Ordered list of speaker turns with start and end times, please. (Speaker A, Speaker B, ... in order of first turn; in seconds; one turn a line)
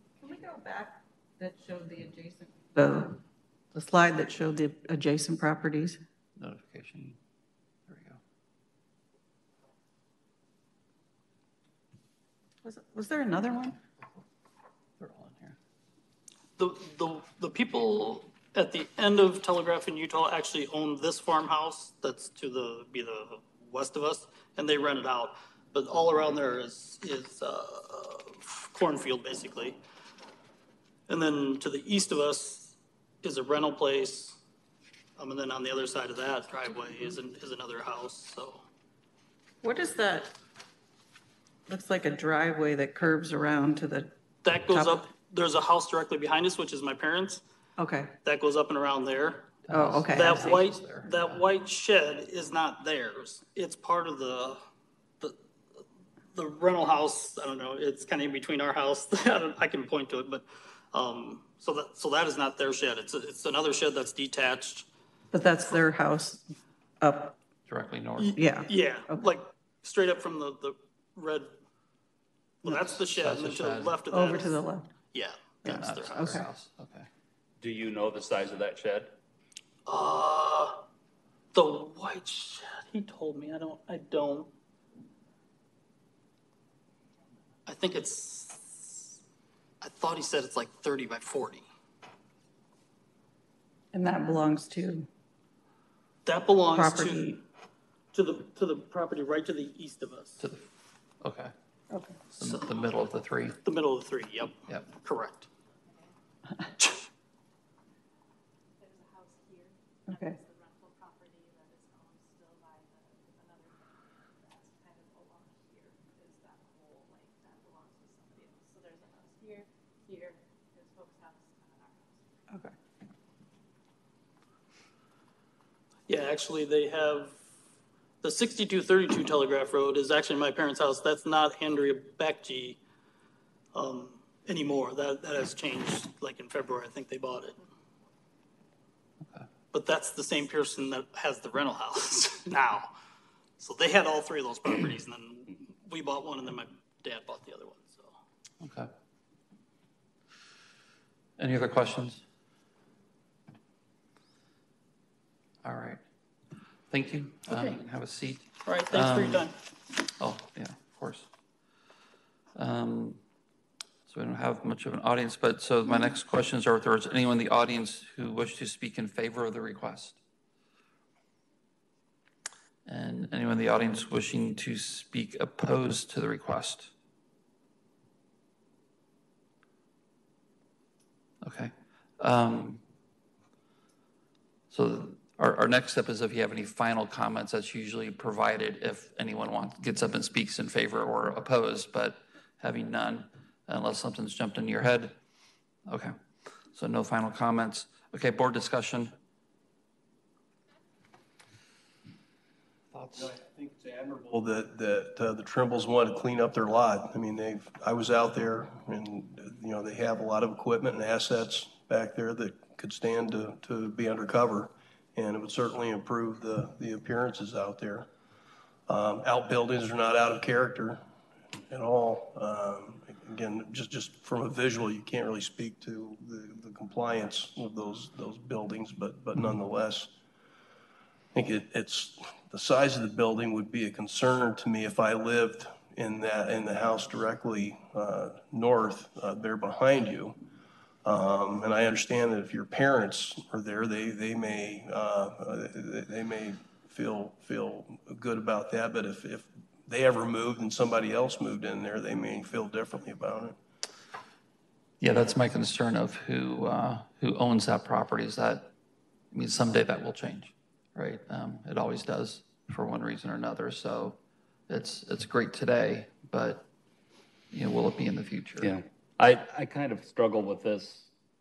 Speaker A: 0.2-3.2
Speaker A: 3.7-6.0
Speaker B: 6.4-7.2
Speaker B: 7.9-8.2
Speaker A: 12.6-13.8
Speaker B: 15.0-15.6
Speaker C: 16.6-29.8
Speaker C: 31.1-34.4
Speaker C: 35.2-38.6
Speaker A: 39.6-40.4
Speaker A: 41.7-45.1
Speaker C: 44.4-47.4
Speaker A: 47.8-48.1
Speaker C: 48.2-49.5
Speaker B: 49.7-51.4
Speaker A: 49.7-50.6
Speaker C: 50.1-54.6
Speaker C: 56.3-64.9
Speaker A: 65.3-67.3
Speaker B: 67.7-68.4
Speaker C: 68.2-71.5
Speaker A: 68.3-69.3
Speaker C: 72.6-74.6
Speaker B: 73.0-74.0
Speaker A: 74.1-74.9
Speaker C: 75.1-76.4
Speaker B: 75.7-77.1
Speaker A: 75.8-76.5
Speaker D: 77.6-79.1
Speaker C: 79.9-80.8
Speaker C: 81.5-84.5
Speaker C: 87.7-89.2
Speaker C: 89.8-91.7
Speaker A: 93.9-95.1
Speaker C: 96.3-97.4
Speaker A: 96.7-97.4
Speaker C: 98.1-100.4
Speaker B: 100.4-100.7
Speaker B: 101.2-101.5
Speaker A: 101.9-102.2
Speaker B: 102.3-103.6
Speaker C: 103.7-105.5
Speaker E: 105.7-106.1
Speaker E: 108.7-122.3
Speaker A: 110.1-110.4
Speaker C: 126.1-127.4
Speaker C: 128.2-132.8
Speaker C: 133.7-137.6
Speaker C: 139.7-142.9
Speaker C: 143.6-148.1
Speaker B: 148.6-148.9
Speaker B: 151.4-152.2
Speaker B: 155.6-156.0
Speaker B: 156.9-159.5
Speaker C: 157.5-157.8
Speaker C: 158.7-159.6
Speaker B: 160.2-161.3
Speaker B: 162.6-163.2
Speaker B: 164.1-170.2
Speaker B: 172.8-176.9
Speaker B: 181.4-182.8
Speaker B: 184.7-195.2
Speaker B: 195.9-196.2
Speaker B: 196.7-199.2
Speaker B: 202.9-203.3
Speaker F: 203.1-218.1
Speaker F: 218.9-221.0
Speaker F: 221.7-230.1
Speaker F: 231.3-240.4
Speaker F: 241.1-253.6
Speaker B: 255.0-258.7
Speaker B: 259.3-266.7
Speaker B: 267.5-268.7
Speaker D: 268.6-271.1